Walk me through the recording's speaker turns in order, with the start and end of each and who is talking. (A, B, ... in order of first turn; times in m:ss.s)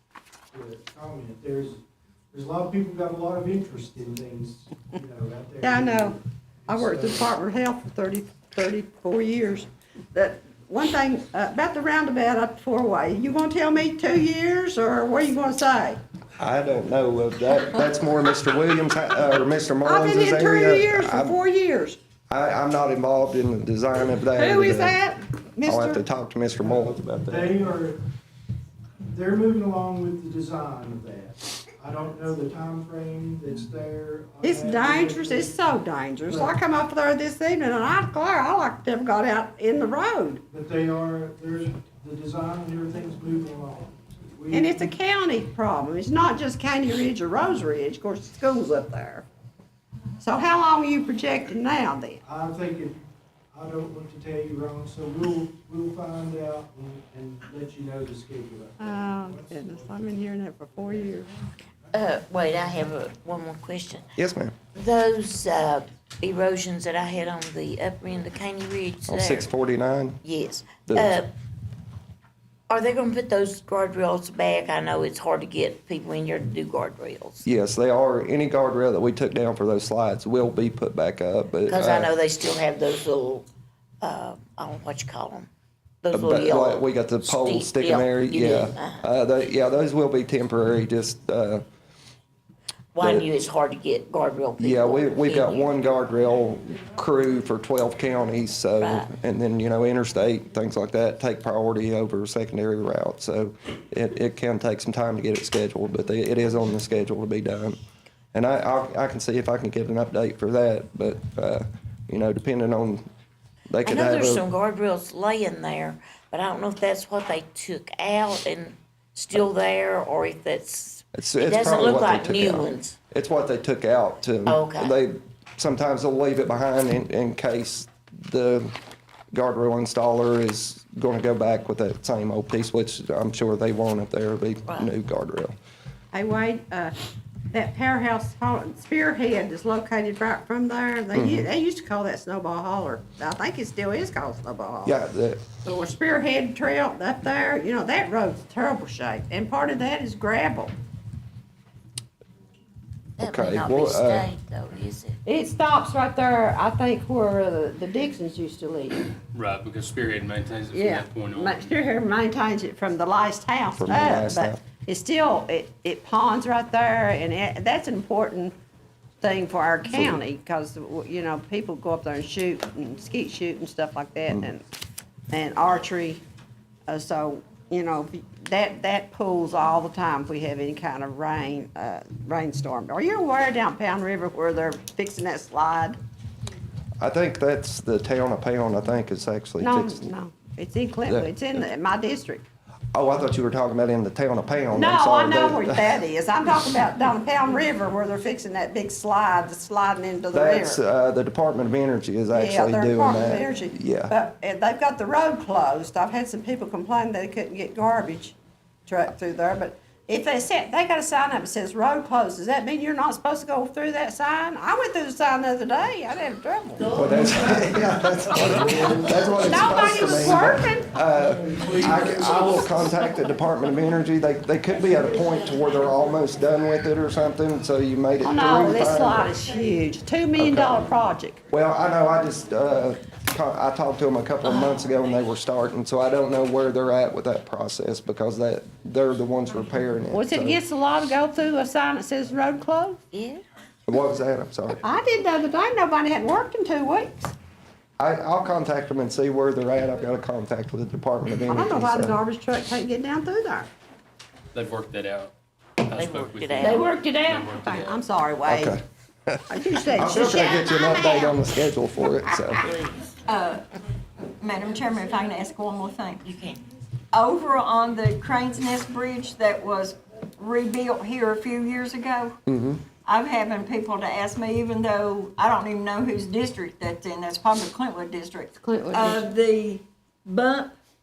0:00.5-0:07.4 A
0:05.6-0:16.0 B
0:16.4-0:21.4 C
0:19.8-0:22.0 B
0:22.3-0:25.0 C
0:24.3-0:26.0 B
0:25.6-0:27.5 C
0:26.6-0:28.0 A
0:29.1-0:35.6 A
0:34.4-0:40.4 B
0:36.2-0:36.5 A
0:40.5-0:44.9 A
0:44.5-0:49.2 B
0:50.2-0:52.2 B
0:52.2-1:00.1 A
0:58.8-1:01.3 B
1:00.8-1:01.2 A
1:01.9-1:04.1 D
1:04.2-1:04.6 C
1:04.7-1:09.5 D
1:09.1-1:10.2 C
1:10.2-1:11.3 D
1:10.9-1:11.2 C
1:12.7-1:17.4 D
1:17.4-1:22.1 C
1:21.7-1:23.4 D
1:24.0-1:25.5 D
1:26.0-1:29.0 D
1:26.1-1:31.6 C
1:32.9-1:35.6 D
1:33.0-1:33.3 C
1:34.6-1:47.8 C
1:38.8-1:39.1 D
1:48.3-1:53.1 C
1:53.7-1:54.4 C
1:53.8-2:03.0 D
2:01.1-2:08.8 C
2:04.4-2:05.0 D
2:09.3-2:15.5 C
2:16.1-2:16.9 B
2:17.5-2:25.0 B
2:21.1-2:21.5 C
2:24.8-2:25.4 C
2:25.6-2:30.7 B
2:33.2-2:35.2 D
2:33.2-2:34.3 C
2:35.2-2:39.0 B
2:39.3-2:41.7 E
2:40.7-2:48.5 B
2:43.8-2:44.6 C
2:49.2-2:54.6 B
2:49.9-2:50.2 C
2:55.3-2:56.2 B
2:56.9-3:06.0 B
3:07.0-3:10.1 C
3:09.6-3:12.4 B
3:11.1-3:11.3 C
3:12.9-3:16.0 C
3:14.7-3:20.8 B
3:20.3-3:24.1 C
3:22.3-3:36.9 B
3:36.9-3:49.3 C
3:39.4-3:40.9 B
3:41.3-3:42.4 A
3:48.2-3:51.4 B
3:50.4-3:50.8 C
3:51.5-4:00.6 C
4:00.1-4:03.0 B
4:03.1-4:03.4 D
4:03.9-4:04.8 C
4:04.8-4:07.3 B
4:08.0-4:12.2 C
4:11.4-4:13.7 B
4:14.5-4:15.3 E
4:15.8-4:18.0 E
4:15.9-4:17.0 D
4:16.6-4:18.8 B
4:18.4-4:22.6 C
4:19.5-4:21.3 B
4:22.6-4:23.0 D
4:23.3-4:23.6 F
4:24.4-4:26.2 F
4:26.2-4:26.6 D
4:27.1-4:32.4 F
4:32.4-4:32.8 C
4:33.0-4:40.7 F
4:38.6-4:39.3 B